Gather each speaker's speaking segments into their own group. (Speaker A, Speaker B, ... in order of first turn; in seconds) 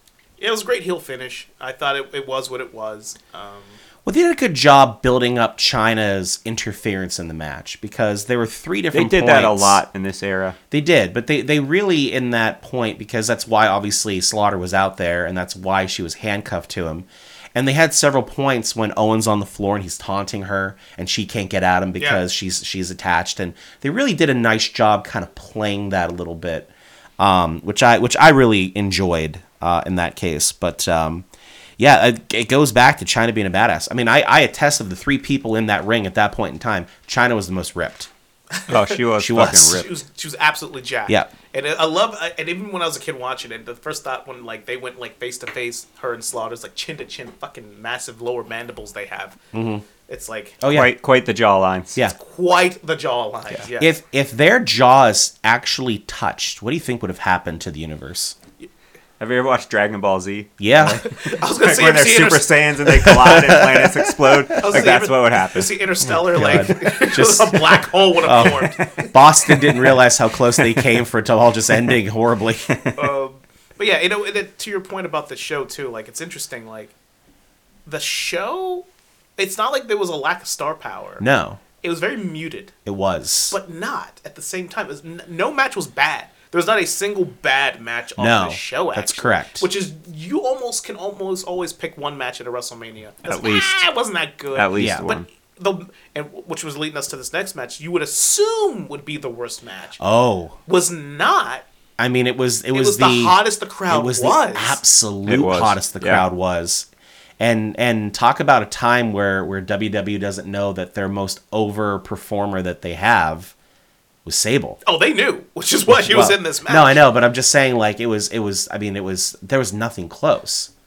Speaker A: 0.4-3.8, 38.5-49.4, 50.0-50.6, 52.1-53.9, 61.0-63.7, 64.5-69.0, 73.0-76.9, 77.8-78.8, 79.4-81.2, 81.8-82.7, 83.5-100.0, 100.7-101.6, 102.7-104.8, 114.8-117.0
Speaker B: 4.0-9.8, 10.7-31.2, 31.8-38.1, 39.2-39.8, 49.5-49.8, 50.6-50.9, 53.8-58.4, 60.6-61.0, 63.2-63.6, 66.0-72.7, 81.2-81.6, 82.8-83.6, 88.2-89.6, 94.8-95.0, 100.0-100.6, 102.0-103.4, 103.9-106.9, 107.4-113.5, 114.2-114.8, 115.9-120.7
Speaker C: 8.9-10.6, 38.7-39.9, 50.7-52.0, 59.2-65.7, 66.4-66.7, 68.4-70.0, 70.6-70.9, 72.7-73.0, 93.3-93.8, 94.5-95.2, 105.3-106.2